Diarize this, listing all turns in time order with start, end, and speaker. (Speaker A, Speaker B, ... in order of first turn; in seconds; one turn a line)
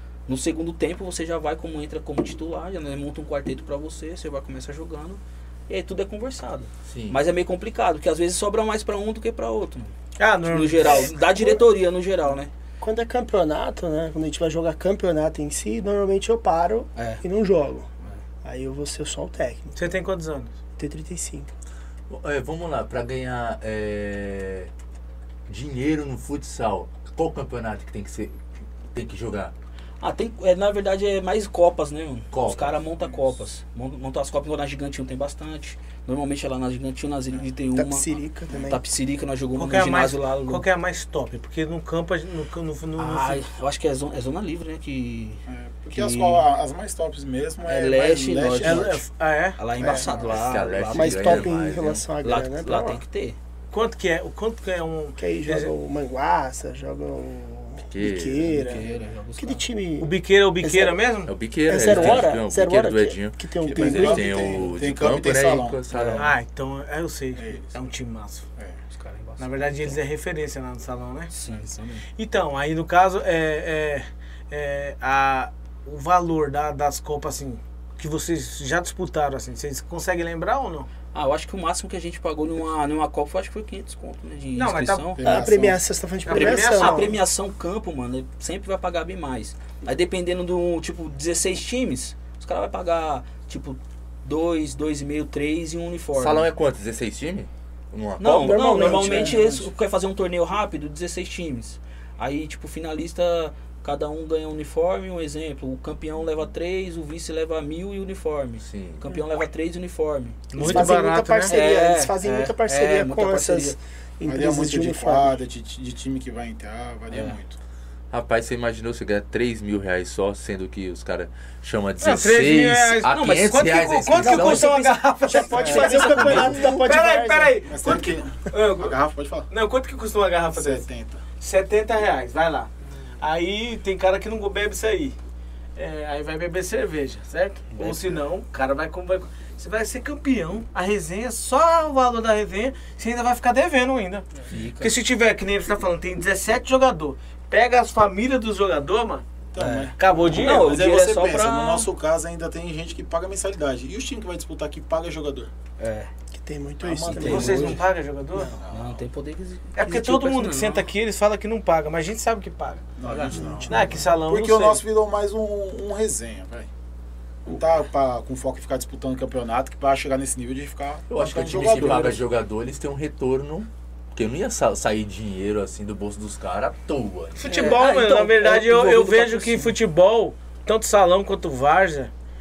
Speaker A: 0.3-9.9
Speaker B: 6.9-7.2
Speaker C: 10.2-11.1
Speaker A: 10.5-12.5
Speaker D: 10.8-11.6
Speaker D: 12.8-17.9
Speaker A: 16.9-17.2
Speaker D: 18.4-19.8
Speaker C: 19.8-20.5
Speaker D: 20.8-21.5
Speaker B: 22.1-24.7
Speaker B: 25.5-28.4
Speaker B: 28.9-29.5
Speaker A: 30.0-38.0
Speaker B: 32.3-32.8
Speaker D: 37.8-38.8
Speaker A: 38.7-40.6
Speaker C: 39.5-43.4
Speaker A: 43.0-46.5
Speaker E: 45.5-49.0
Speaker A: 47.6-49.0
Speaker C: 48.6-49.6
Speaker A: 49.6-51.6
Speaker E: 49.8-50.3
Speaker B: 50.0-52.0
Speaker D: 50.9-53.0
Speaker A: 52.2-53.4
Speaker C: 53.7-55.7
Speaker D: 55.2-58.9
Speaker B: 57.9-58.8
Speaker A: 58.6-59.6
Speaker D: 59.4-61.0
Speaker C: 60.0-61.3
Speaker B: 61.2-66.3
Speaker D: 61.7-64.7
Speaker A: 61.8-62.3
Speaker E: 63.6-65.8
Speaker A: 65.9-66.2
Speaker C: 66.2-68.4
Speaker E: 67.3-67.7
Speaker A: 68.9-70.0
Speaker C: 69.4-71.3
Speaker A: 71.3-72.0
Speaker C: 72.2-80.9
Speaker A: 81.1-85.2
Speaker C: 84.5-85.1
Speaker E: 85.2-85.8
Speaker D: 85.2-87.2
Speaker C: 86.2-87.2
Speaker A: 86.3-96.5
Speaker B: 96.2-99.1
Speaker A: 98.2-110.6
Speaker D: 98.3-99.7
Speaker B: 108.6-109.0
Speaker C: 110.5-111.5
Speaker D: 110.6-115.4
Speaker A: 111.5-113.8
Speaker E: 114.2-117.5
Speaker A: 117.1-117.4
Speaker B: 118.1-124.7
Speaker C: 122.0-128.9
Speaker A: 123.1-126.5
Speaker D: 125.3-127.6
Speaker E: 125.6-125.9
Speaker E: 127.7-129.5
Speaker C: 129.5-130.8
Speaker E: 130.5-131.2
Speaker C: 131.4-135.1
Speaker C: 135.8-144.3
Speaker A: 137.8-138.1
Speaker A: 144.5-144.9
Speaker C: 144.8-149.2
Speaker E: 149.5-155.5
Speaker A: 149.6-151.9
Speaker C: 150.0-150.8
Speaker A: 155.8-156.1
Speaker D: 156.3-157.8
Speaker E: 156.8-157.8
Speaker A: 157.1-157.8
Speaker C: 157.2-158.5
Speaker E: 158.4-159.0
Speaker A: 158.7-160.9
Speaker C: 159.8-162.9
Speaker E: 163.0-166.7
Speaker A: 163.0-163.4
Speaker D: 163.3-164.1
Speaker C: 163.7-164.8
Speaker E: 167.4-172.2
Speaker B: 171.1-177.5
Speaker A: 171.6-172.1
Speaker C: 177.4-182.1
Speaker A: 177.4-179.7